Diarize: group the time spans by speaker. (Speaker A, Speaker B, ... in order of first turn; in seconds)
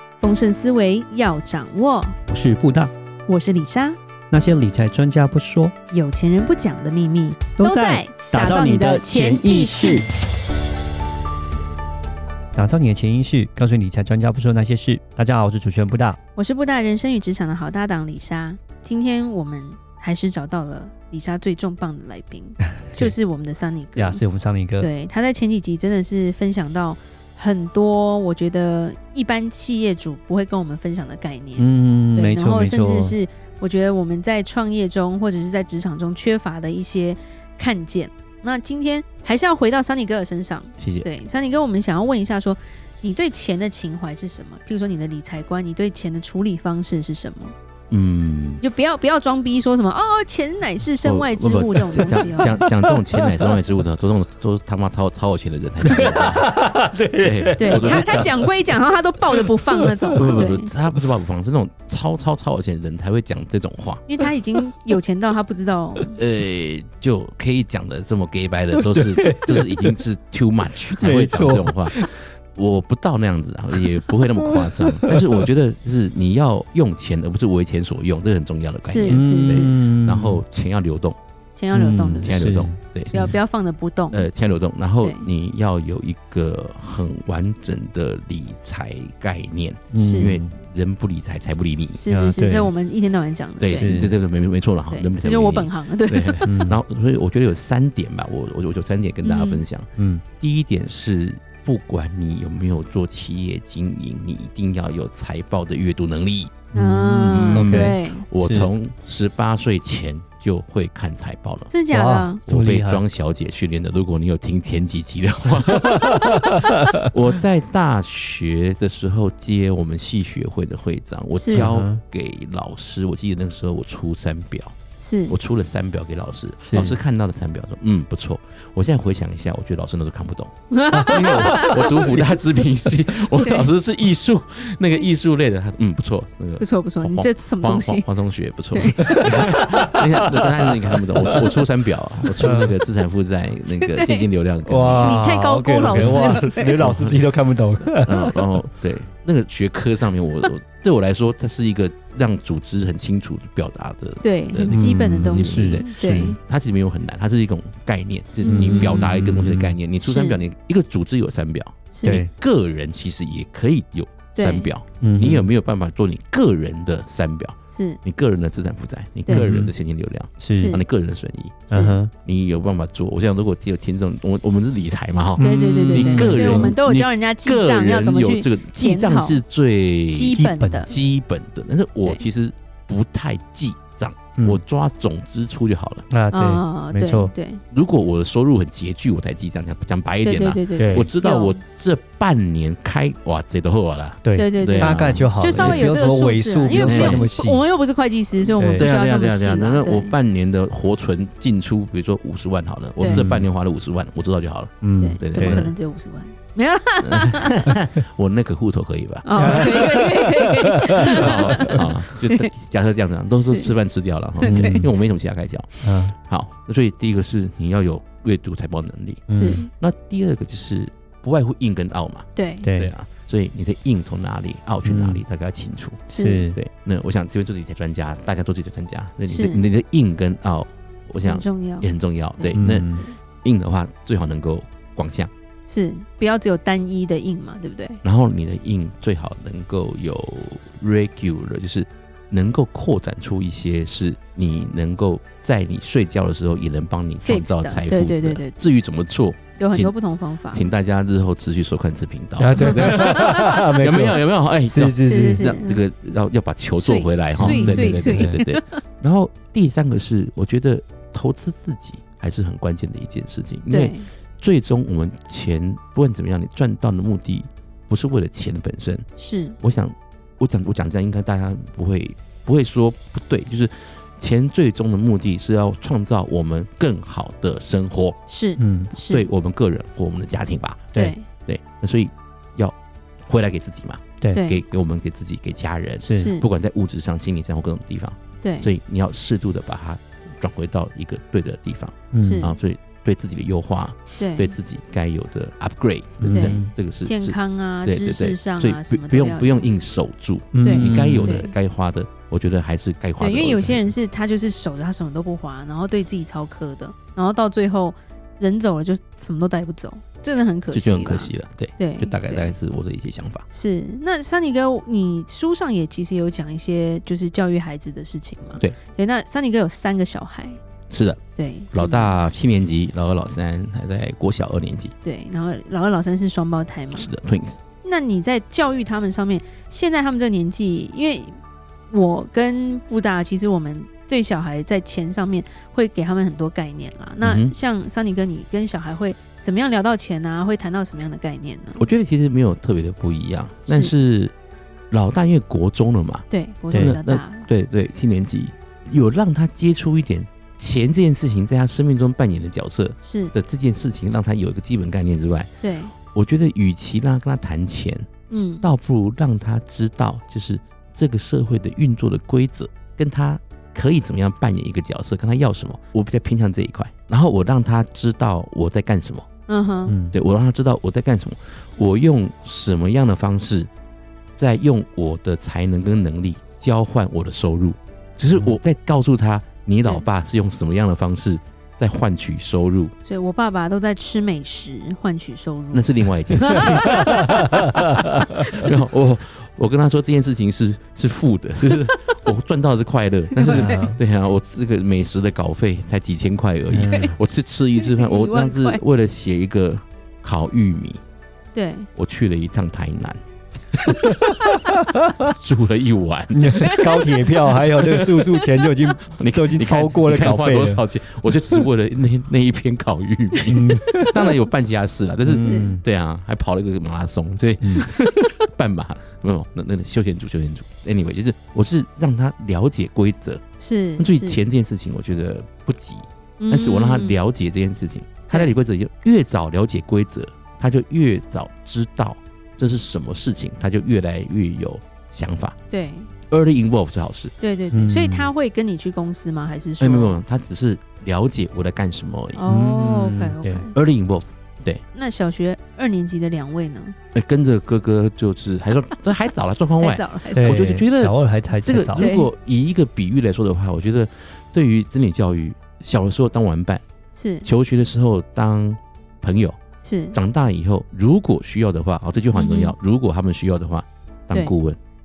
Speaker A: 0.2-2.2, 3.3-4.0, 5.9-10.1, 16.4-24.2, 24.8-47.5, 48.6-52.6, 57.6-60.7, 64.1-66.2, 78.8-79.7, 81.5-82.3, 83.1-84.3, 85.0-85.3, 90.0-90.3, 92.0-94.0, 94.9-96.4, 99.2-99.6, 106.7-108.2, 111.7-112.4, 121.3-121.7, 125.0-125.3, 130.7-132.1, 133.4-133.7, 136.6-138.1, 138.7-139.2, 143.8-144.3, 145.0-146.8, 154.2-156.4, 158.4-159.1, 160.0-160.4, 161.9-162.2, 164.3-165.3, 167.7-168.0, 170.5-170.8, 171.7-172.0, 175.4-179.4, 180.1-180.9, 186.3-187.6, 190.2-191.6, 194.3-200.1, 203.0-203.2, 205.0-207.7, 209.2-212.5, 213.4-213.7, 214.4-214.9, 219.3-219.7, 222.3-222.7, 226.1-226.5, 229.3-229.6, 231.2-232.6, 235.7-238.0, 247.2-248.6, 249.6-250.7, 252.6-252.9, 255.1-255.8, 256.8-258.8, 263.7-264.1, 269.2-269.6, 278.3-279.3, 280.9-281.3, 284.3-284.6, 286.2-286.5, 288.4-288.7, 292.2-292.6, 294.2-294.5, 296.3-299.7, 300.6-301.5, 303.2-312.5, 313.5-320.6, 321.4-322.2, 325.0-327.1, 327.8-331.4, 331.9-341.8, 343.7-343.9, 346.3-347.5, 353.0-353.3, 355.6-355.9, 358.3-358.7, 369.5-369.9, 383.0-387.6, 388.4-388.7, 393.4-393.8, 397.8-398.8, 401.5-401.9, 406.6-407.1, 415.4-415.7, 423.6-424.4, 426.4-427.2, 428.3-428.5, 435.7-436.1, 437.4-440.2, 442.3-443.7, 444.9-446.9, 449.8-450.6, 451.9-452.3, 457.1-457.5, 459.8-460.2, 462.3-462.7
Speaker B: 2.3-2.9, 4.3-5.7, 7.6-10.1, 12.5-16.2, 23.9-24.9, 31.6-33.2, 51.9-53.6, 55.8-58.7, 59.3-60.4, 68.7-70.0, 71.0-72.1, 74.5-75.4, 79.1-80.4, 81.7-83.3, 89.9-90.5, 92.1-92.7, 93.7-94.1, 96.4-96.8, 100.0-100.2, 106.7-108.7, 111.9-113.0, 115.9-117.0, 121.5-122.0, 126.6-127.0, 139.1-141.5, 142.4-142.8, 144.6-148.4, 154.7-156.2, 158.4-159.8, 162.0-162.3, 165.0-165.5, 169.3-169.7, 170.4-170.8, 171.7-172.1, 175.4-176.7, 180.3-180.9, 184.4-184.6, 186.1-187.3, 190.8-191.1, 194.2-197.6, 198.6-198.9, 203.1-203.5, 204.8-205.6, 209.4-211.9, 214.5-214.9, 215.8-216.1, 219.3-219.7, 222.6-222.9, 224.8-225.2, 226.2-226.6, 232.5-233.1, 252.4-255.5, 257.3-258.4, 278.6-278.9, 286.0-286.3, 292.1-292.5, 296.2-296.7, 300.5-301.4, 346.7-346.9, 369.9-370.1, 386.6-388.2, 393.4-394.0, 396.7-397.1, 404.1-405.1, 406.3-410.8, 413.5-414.2, 415.2-415.8, 417.6-417.9, 437.7-438.3, 442.5-443.6, 450.3-452.1
Speaker C: 40.8-41.1, 47.9-48.6, 51.0-56.5, 57.2-58.3, 60.1-64.0, 66.1-81.2, 82.2-83.1, 84.1-92.0, 93.6-106.6, 107.3-111.7, 112.4-124.8, 125.3-145.2, 145.9-147.2, 148.0-161.8, 162.3-186.1, 187.7-195.8, 196.8-197.3, 198.4-205.7, 207.0-209.9, 211.0-235.3, 238.0-250.0, 250.5-269.0, 269.6-278.2, 278.9-280.9, 281.4-282.7, 283.2-303.9, 310.7-313.4, 320.9-321.2, 321.7-324.9, 326.9-327.6, 337.2-337.5, 341.8-344.3, 344.9-355.5, 356.1-358.1, 358.6-369.2, 370.1-373.7, 374.4-382.9, 385.7-401.0, 401.9-403.2, 403.7-404.4, 405.2-406.7, 407.8-408.2, 409.1-423.4, 424.0-435.6, 436.3-437.3, 439.8-442.4, 443.7-444.8, 447.1-456.8, 457.4-459.6, 460.1-464.8